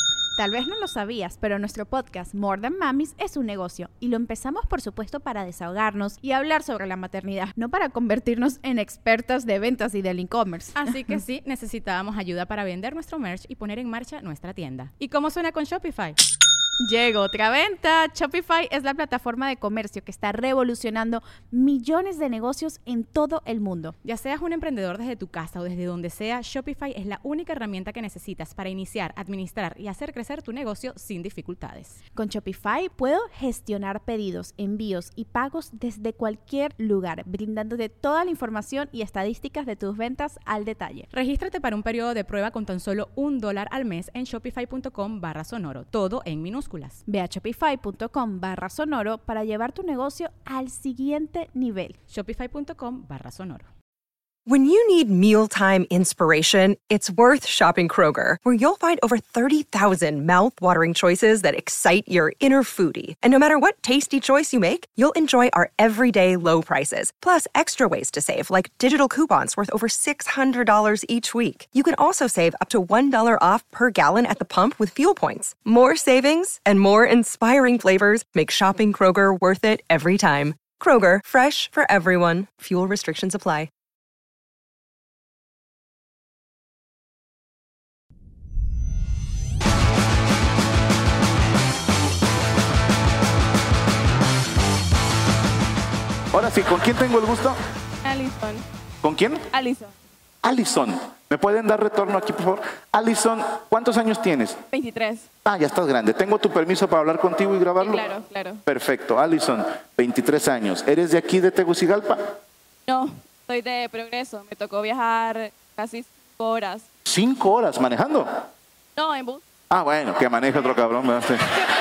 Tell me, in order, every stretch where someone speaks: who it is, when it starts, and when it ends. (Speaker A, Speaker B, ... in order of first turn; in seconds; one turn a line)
Speaker A: 0.4-10.8
Speaker B: 10.8-16.2
Speaker A: 16.8-23.9
Speaker B: 24.0-32.0
Speaker A: 32.1-41.1
Speaker B: 41.1-47.0
Speaker A: 47.1-52.0
Speaker B: 52.1-53.7
Speaker C: 54.5-83.7
Speaker D: 96.3-97.6
Speaker E: 98.0-98.7
Speaker D: 99.0-99.5
Speaker E: 99.5-99.9
Speaker D: 100.4-104.6
Speaker E: 104.7-105.3
Speaker D: 105.5-108.0
Speaker E: 107.8-108.6
Speaker D: 108.7-112.4
Speaker E: 112.9-116.9
Speaker D: 117.1-118.4
Speaker E: 119.0-119.4
Speaker D: 119.7-121.5